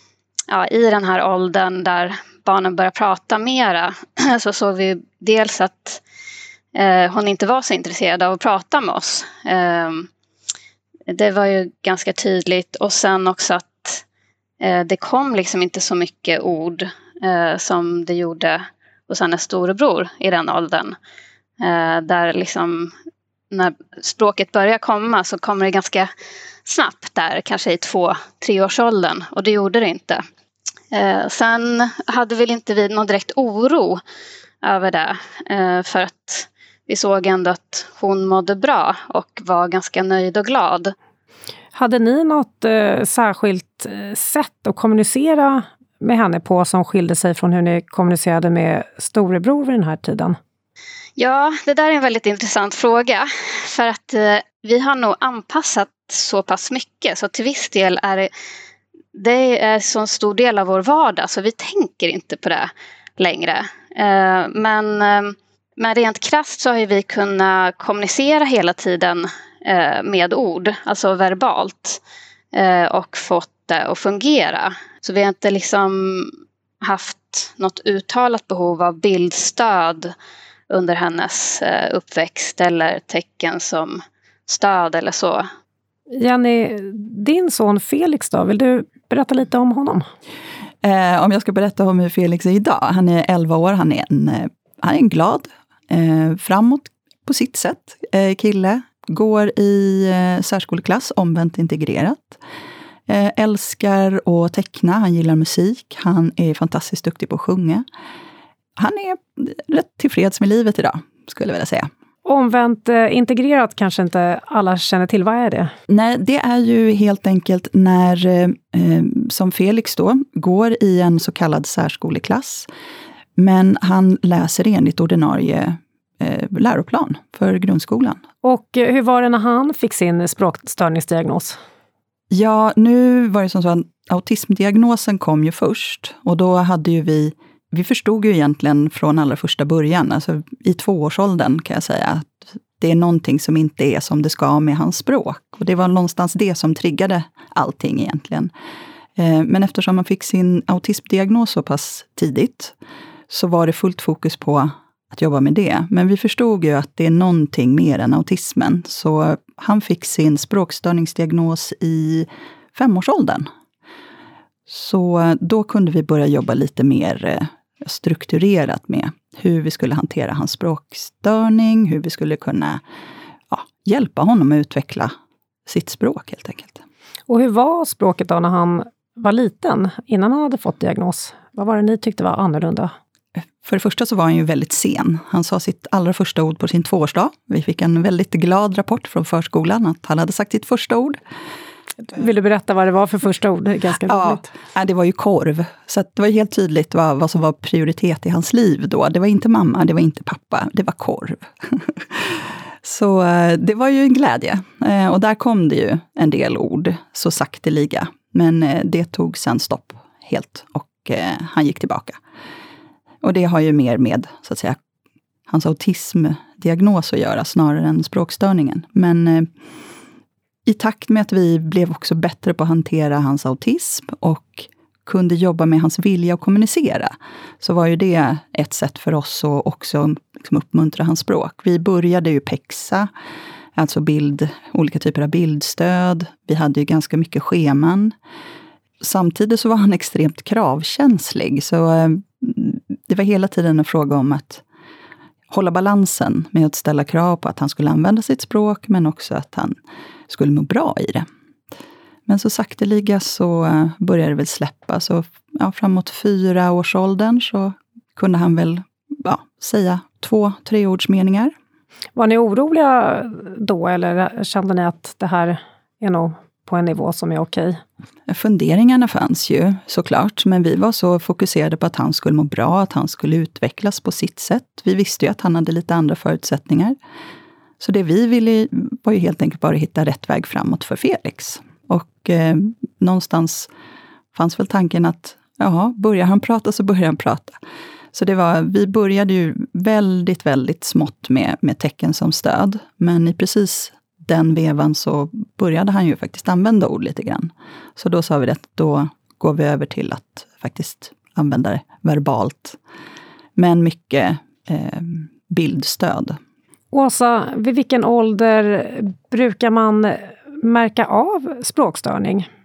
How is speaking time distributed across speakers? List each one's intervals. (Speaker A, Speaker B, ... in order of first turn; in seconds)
Speaker A: 0.5-6.0, 6.7-10.1, 11.1-14.0, 14.6-20.9, 21.6-22.9, 23.5-26.1, 26.6-30.2, 30.9-34.0, 34.6-41.0, 51.2-58.3, 59.1-72.0, 72.5-80.1, 80.7-85.5
Speaker B: 41.7-50.4, 86.1-90.0, 112.2-115.7, 128.4-131.6, 177.3-182.9, 192.1-194.5, 262.1-267.8, 306.9-312.5
Speaker C: 90.8-102.4, 103.1-107.8, 108.8-111.9, 115.9-122.7, 123.4-128.2, 132.3-148.5, 149.2-152.8, 153.3-163.5, 164.7-172.8, 173.5-175.1, 175.7-176.8, 183.6-191.2, 194.1-212.2, 213.2-214.8, 215.5-219.5, 220.7-233.1, 233.8-238.1, 239.0-244.6, 245.5-249.8, 250.3-251.3, 252.3-261.5, 268.3-277.0, 277.8-283.7, 284.3-287.6, 288.1-302.8, 303.6-306.4